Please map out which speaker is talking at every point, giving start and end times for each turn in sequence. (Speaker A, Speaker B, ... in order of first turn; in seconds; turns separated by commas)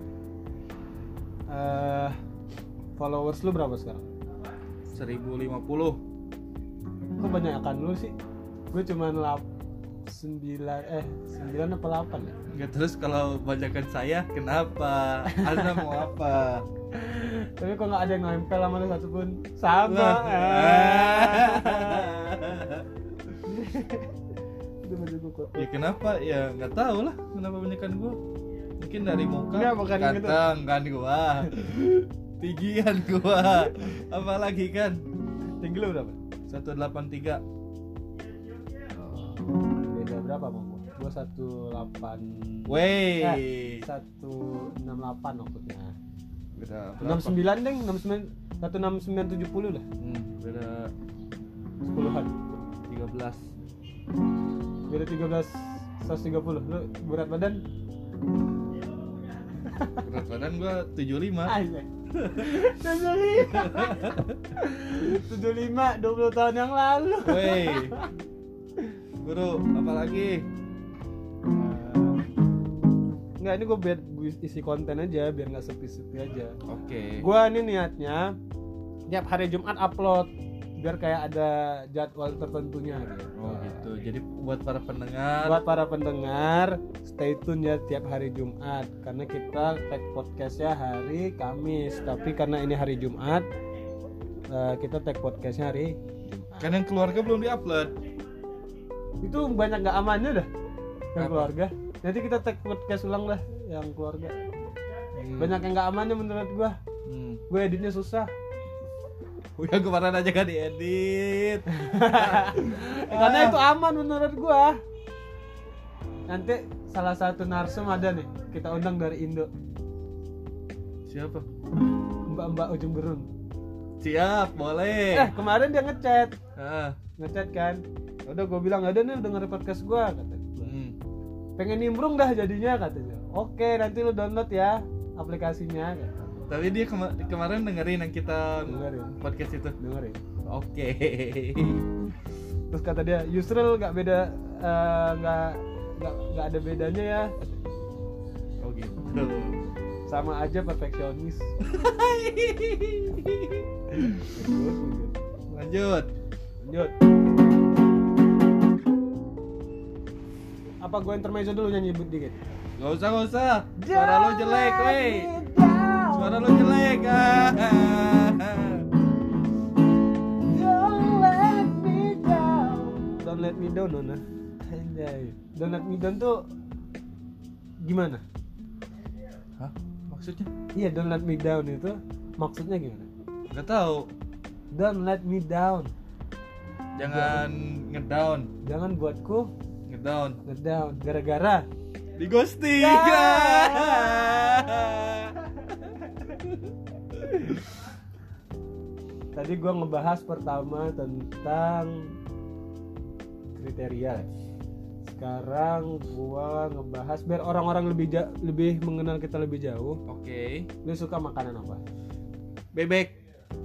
Speaker A: 1.5-2.1, Speaker A: 3.0-4.0, Speaker B: 4.9-6.0, Speaker A: 7.2-8.1, Speaker A: 8.7-9.4, Speaker A: 10.1-12.3, Speaker B: 12.5-16.6, Speaker A: 15.3-15.9, Speaker A: 16.9-22.1, Speaker B: 19.8-22.9, Speaker A: 23.4-24.1, Speaker A: 24.8-25.7, Speaker B: 25.6-28.2, Speaker B: 28.8-35.0, Speaker A: 29.5-30.4, Speaker A: 31.5-32.0, Speaker A: 35.5-36.2, Speaker B: 36.5-37.4, Speaker A: 39.0-45.9, Speaker B: 42.7-43.8, Speaker B: 46.5-47.4, Speaker A: 47.0-49.8, Speaker B: 50.0-50.9, Speaker A: 51.8-52.3, Speaker B: 52.9-53.5, Speaker A: 54.9-57.6, Speaker A: 59.6-60.1, Speaker B: 60.0-61.5, Speaker A: 61.5-68.1, Speaker B: 62.1-62.5, Speaker B: 63.5-64.3, Speaker B: 67.2-67.9, Speaker B: 69.2-70.5, Speaker A: 71.5-72.2, Speaker A: 73.4-76.6, Speaker B: 76.7-77.2, Speaker A: 77.2-78.3, Speaker A: 79.1-83.8, Speaker B: 83.4-85.6, Speaker A: 85.4-93.5, Speaker A: 94.5-96.7, Speaker B: 96.6-97.9, Speaker A: 99.2-100.5, Speaker A: 101.1-104.4, Speaker B: 101.2-101.5, Speaker B: 105.2-105.6, Speaker A: 105.4-106.8, Speaker B: 107.0-107.4, Speaker A: 107.5-108.3, Speaker B: 109.6-113.6, Speaker A: 111.7-114.8, Speaker A: 116.3-119.5, Speaker B: 121.1-121.5, Speaker A: 122.3-123.3, Speaker B: 124.0-125.3, Speaker A: 125.1-126.3, Speaker B: 126.5-127.0, Speaker A: 127.2-130.7, Speaker B: 130.6-130.9, Speaker A: 131.6-136.2, Speaker B: 136.5-139.7, Speaker A: 138.7-139.2, Speaker A: 139.8-140.2, Speaker B: 140.4-141.9, Speaker A: 142.7-147.3, Speaker B: 148.6-149.6, Speaker A: 150.1-151.5, Speaker B: 151.6-154.2, Speaker A: 154.0-155.1, Speaker B: 155.5-156.1, Speaker A: 156.6-156.9, Speaker A: 160.8-162.3, Speaker B: 162.8-165.3, Speaker A: 163.8-166.4, Speaker B: 166.1-168.8, Speaker A: 170.5-176.4, Speaker A: 177.8-178.2, Speaker B: 179.6-180.5, Speaker A: 180.7-183.1, Speaker B: 183.5-184.1, Speaker A: 184.7-185.9, Speaker B: 186.9-188.5, Speaker A: 187.0-187.4, Speaker A: 188.6-189.5, Speaker B: 189.9-190.4, Speaker A: 190.4-191.7, Speaker B: 192.2-195.4, Speaker A: 192.8-194.7, Speaker A: 197.1-197.6, Speaker A: 199.3-202.1, Speaker A: 203.6-204.3, Speaker A: 205.1-210.0, Speaker B: 210.1-210.7, Speaker A: 210.8-211.8, Speaker B: 212.7-213.1